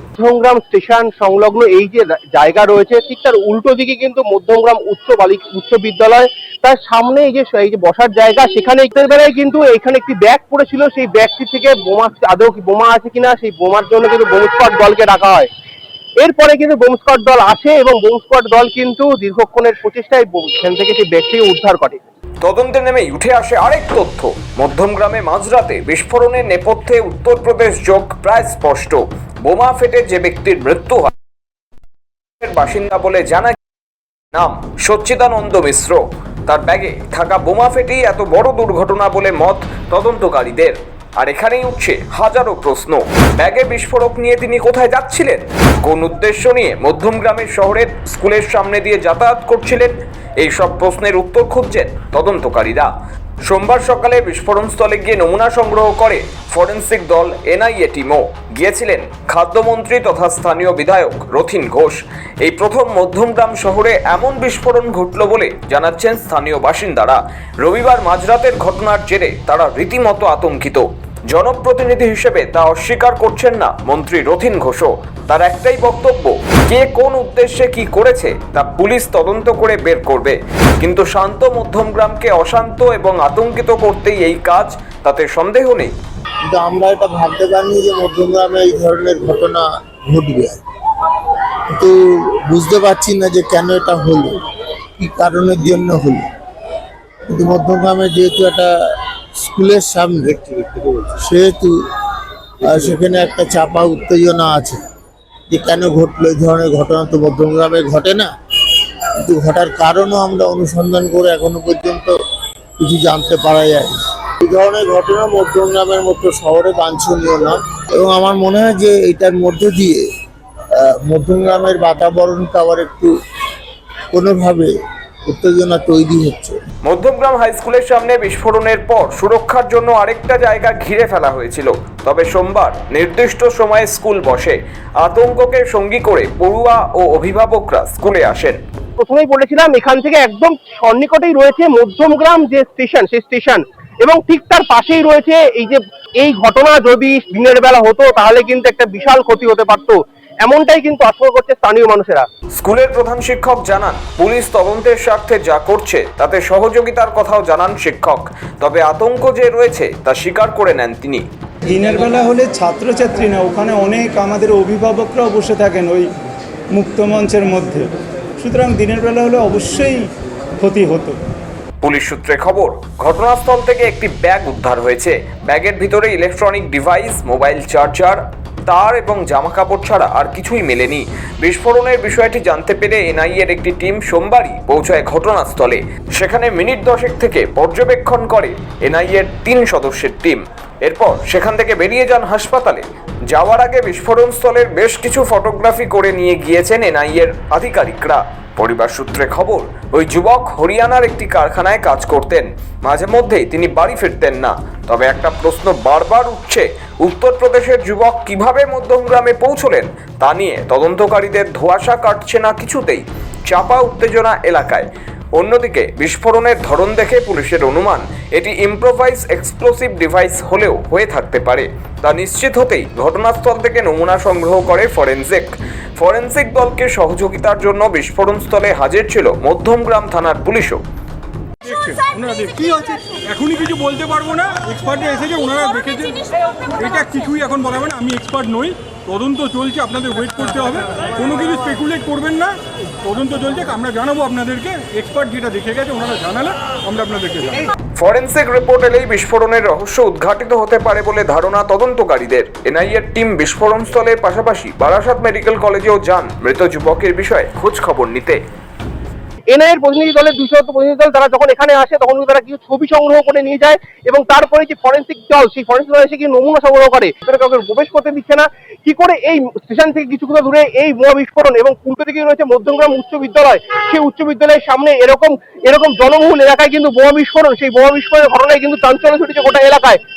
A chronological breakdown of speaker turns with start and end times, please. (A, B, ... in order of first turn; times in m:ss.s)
0:00.2-0:15.5 A
0:16.2-0:22.0 A
0:22.4-0:31.1 B
0:32.4-0:33.6 B
0:34.3-0:52.9 B
0:53.5-1:25.9 B
1:26.5-1:30.6 C
1:31.7-1:34.4 C
1:35.0-1:36.3 C
1:37.3-1:38.7 C
1:39.4-1:40.4 C
1:41.0-1:41.7 C
1:42.6-1:44.8 C
1:45.5-1:48.3 C
1:49.2-1:52.2 C
1:52.8-2:00.0 C
2:00.8-2:03.1 C
2:04.1-2:04.7 C
2:05.3-2:06.6 C
2:06.8-2:18.6 B
2:19.0-2:32.3 A
2:32.6-2:41.2 B
2:41.6-2:46.1 D
2:46.7-2:51.2 D
2:51.8-3:50.8 B
3:51.6-4:07.7 E
4:08.0-4:18.4 B
4:19.5-4:40.0 A